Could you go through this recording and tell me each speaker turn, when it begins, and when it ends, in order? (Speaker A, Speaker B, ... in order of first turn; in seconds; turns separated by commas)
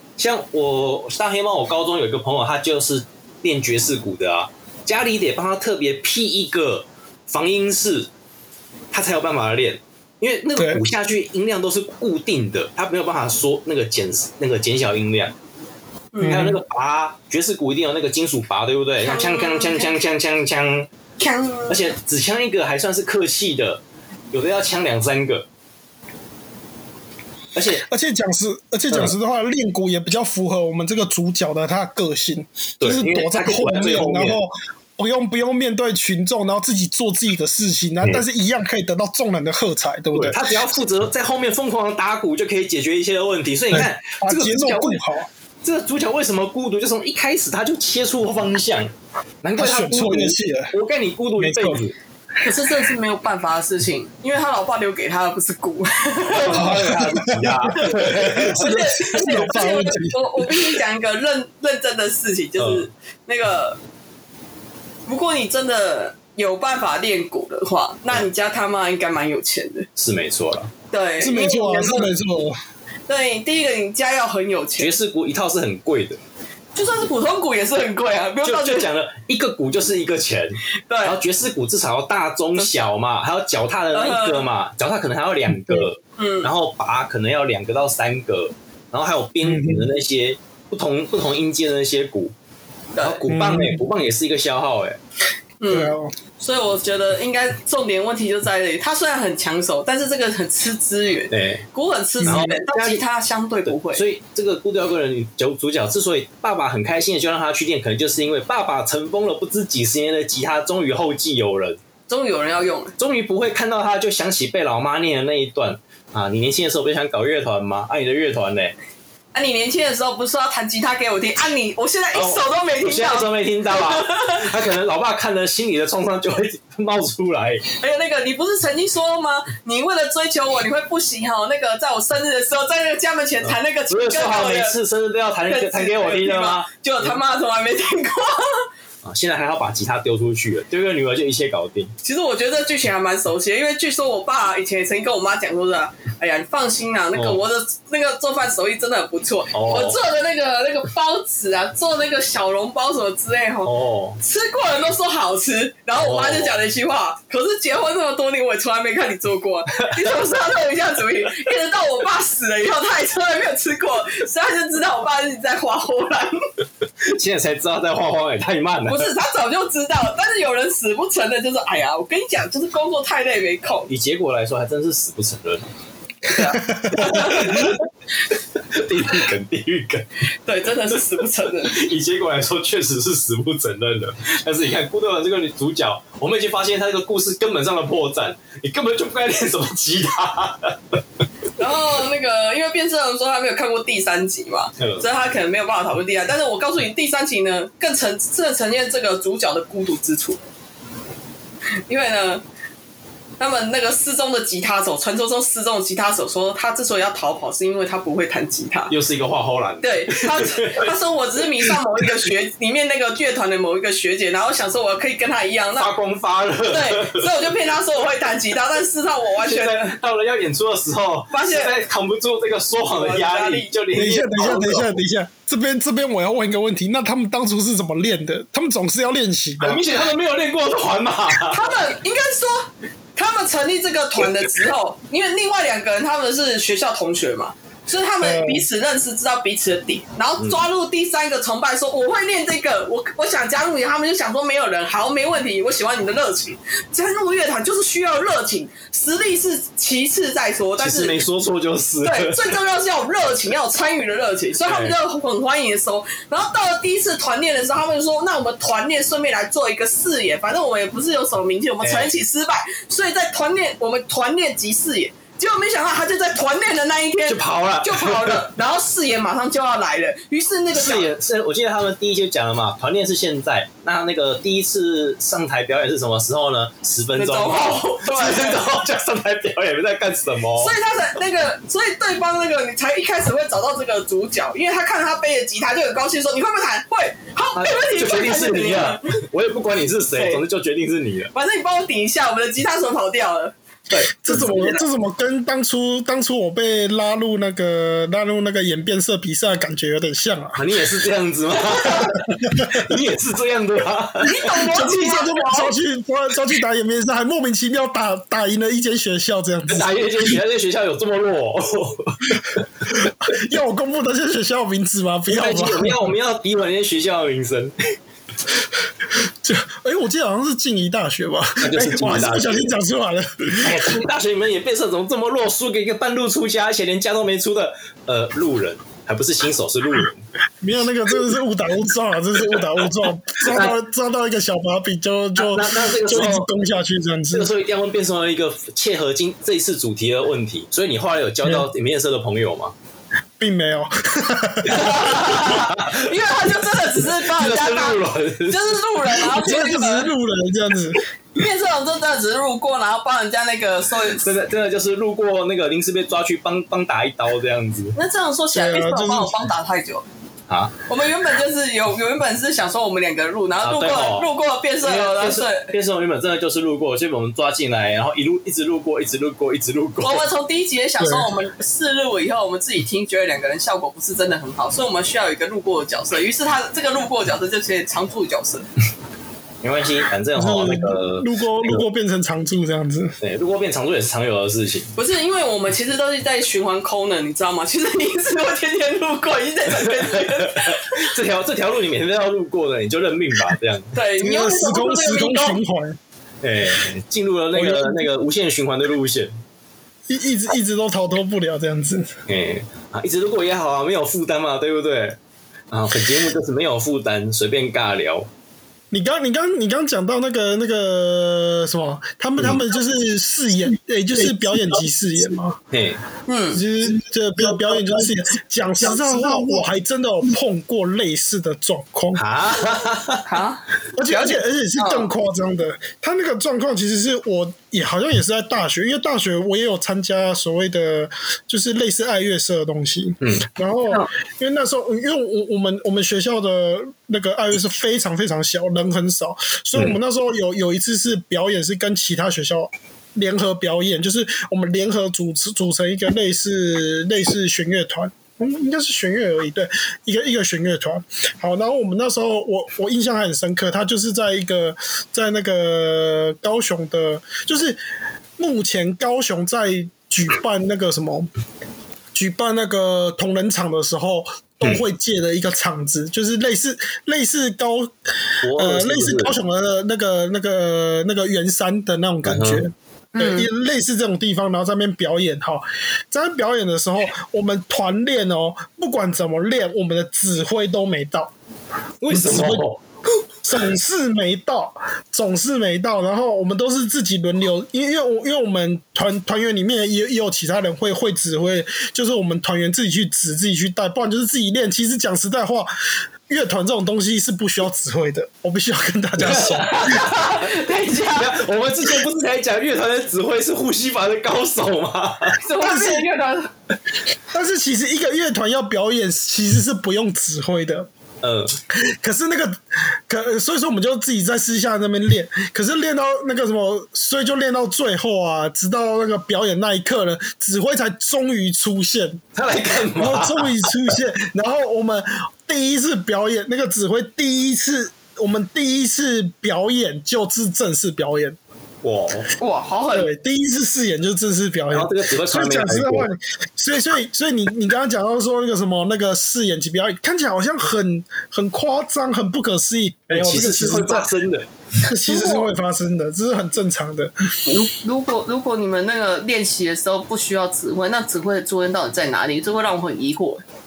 Speaker A: 0.2-8.1, Speaker A: 8.9-15.3, Speaker B: 10.6-10.8, Speaker C: 16.1-16.5, Speaker B: 16.2-16.6, Speaker A: 16.2-20.9, Speaker C: 19.0-19.9, Speaker C: 21.2-21.8, Speaker A: 21.7-25.5, Speaker A: 27.5-27.8, Speaker B: 27.7-40.6, Speaker A: 32.8-34.4, Speaker A: 40.1-45.0, Speaker B: 43.7-45.3, Speaker A: 45.6-51.9, Speaker B: 49.6-50.7, Speaker B: 51.4-51.8, Speaker C: 52.4-56.7, Speaker A: 56.2-59.5, Speaker B: 56.5-60.8, Speaker C: 57.8-63.8, Speaker A: 62.6-62.9, Speaker C: 65.1-69.9, Speaker A: 70.0-70.7, Speaker C: 70.9-72.1, Speaker B: 71.2-72.6, Speaker C: 73.1-74.9, Speaker A: 74.8-76.2, Speaker C: 76.7-78.9, Speaker A: 78.4-92.3, Speaker C: 80.9-81.2, Speaker C: 82.6-82.8, Speaker C: 83.9-84.5, Speaker B: 85.5-85.9, Speaker C: 86.2-86.5, Speaker B: 89.4-89.9, Speaker C: 92.9-93.2, Speaker A: 93.0-95.0, Speaker B: 93.3-93.8, Speaker C: 95.6-104.0, Speaker B: 95.7-96.1, Speaker A: 101.3-101.6, Speaker B: 102.2-102.5, Speaker A: 102.2-103.0, Speaker A: 103.7-111.8, Speaker C: 112.1-112.9, Speaker A: 113.0-118.7, Speaker C: 119.3-124.5, Speaker A: 122.1-127.6, Speaker C: 127.8-134.8, Speaker A: 133.4-137.2, Speaker C: 135.5-138.7, Speaker A: 139.0-141.9, Speaker C: 142.0-166.4, Speaker A: 147.1-147.4, Speaker A: 149.5-150.0, Speaker A: 153.6-154.2, Speaker A: 155.9-156.6, Speaker A: 159.8-160.1, Speaker A: 167.0-169.1, Speaker C: 168.9-173.9, Speaker A: 173.9-175.6, Speaker C: 176.3-177.8, Speaker B: 176.3-177.7, Speaker A: 176.9-177.8, Speaker A: 178.5-180.1, Speaker C: 180.4-181.7, Speaker A: 181.6-190.8, Speaker C: 191.6-200.4, Speaker A: 194.8-195.1, Speaker C: 201.9-202.4, Speaker C: 203.4-208.9, Speaker A: 208.9-210.9, Speaker C: 209.8-215.9, Speaker A: 211.6-212.1, Speaker A: 215.8-217.3, Speaker C: 216.7-219.9, Speaker A: 219.4-224.9, Speaker C: 221.3-221.7, Speaker C: 222.9-223.7, Speaker B: 223.9-229.8, Speaker A: 229.6-231.6, Speaker C: 231.3-251.2, Speaker B: 238.2-238.7, Speaker A: 250.8-252.5, Speaker C: 252.0-271.1, Speaker A: 254.6-255.0, Speaker A: 261.8-262.1, Speaker A: 267.3-268.4, Speaker A: 270.7-280.7, Speaker C: 277.1-278.6, Speaker C: 280.6-289.1, Speaker A: 287.5-291.3, Speaker C: 290.1-290.4, Speaker C: 291.3-294.8, Speaker B: 294.1-300.6, Speaker A: 300.5-304.9, Speaker C: 301.7-302.1, Speaker B: 302.1-302.9, Speaker C: 304.2-305.7, Speaker B: 304.6-310.4, Speaker A: 309.7-312.7, Speaker B: 312.9-316.1, Speaker A: 315.3-317.7, Speaker B: 319.4-324.0, Speaker A: 321.6-322.7, Speaker A: 323.6-330.2, Speaker B: 330.6-337.5, Speaker A: 333.4-333.7, Speaker A: 335.4-336.5, Speaker A: 337.3-342.7, Speaker B: 343.4-345.0, Speaker A: 344.6-346.1, Speaker C: 344.7-350.1, Speaker A: 346.9-348.8, Speaker B: 349.2-351.0, Speaker C: 351.3-354.3, Speaker A: 354.2-357.9, Speaker C: 357.9-360.1, Speaker B: 358.5-359.5, Speaker A: 360.5-360.8, Speaker C: 360.9-365.7, Speaker A: 363.6-364.3, Speaker A: 364.8-370.2, Speaker C: 370.0-378.7, Speaker B: 371.0-371.3, Speaker A: 379.6-381.8, Speaker B: 380.4-383.2, Speaker A: 383.2-384.9, Speaker C: 384.9-391.1, Speaker A: 389.7-393.9, Speaker C: 393.9-395.6, Speaker B: 394.2-396.0, Speaker A: 396.4-399.3, Speaker B: 397.5-398.1, Speaker B: 400.1-402.1, Speaker A: 402.3-405.2, Speaker A: 405.7-408.3, Speaker B: 408.9-415.6, Speaker A: 415.7-416.0, Speaker C: 416.3-416.6, Speaker B: 416.5-422.2, Speaker C: 417.5-418.1, Speaker C: 418.9-419.6, Speaker A: 422.1-423.4, Speaker C: 423.3-425.1, Speaker B: 423.9-457.8, Speaker A: 433.2-433.5, Speaker B: 458.4-461.3, Speaker B: 462.1-467.9, Speaker A: 468.4-469.3, Speaker B: 468.5-481.3, Speaker A: 472.2-472.6, Speaker C: 473.1-473.5, Speaker A: 482.0-482.8, Speaker B: 482.1-482.6, Speaker B: 483.4-495.7, Speaker B: 496.3-499.9, Speaker A: 499.2-500.4, Speaker C: 499.8-501.4, Speaker A: 501.1-505.4, Speaker C: 505.4-506.5, Speaker B: 505.6-506.1, Speaker B: 507.3-510.9, Speaker A: 511.2-511.6, Speaker B: 511.7-522.2, Speaker A: 522.3-523.7, Speaker B: 523.0-531.4, Speaker A: 531.8-532.3, Speaker C: 532.4-533.1, Speaker B: 532.9-544.1, Speaker A: 534.7-536.1, Speaker A: 543.1-544.5, Speaker B: 544.8-547.1, Speaker C: 545.0-545.5, Speaker C: 547.5-553.4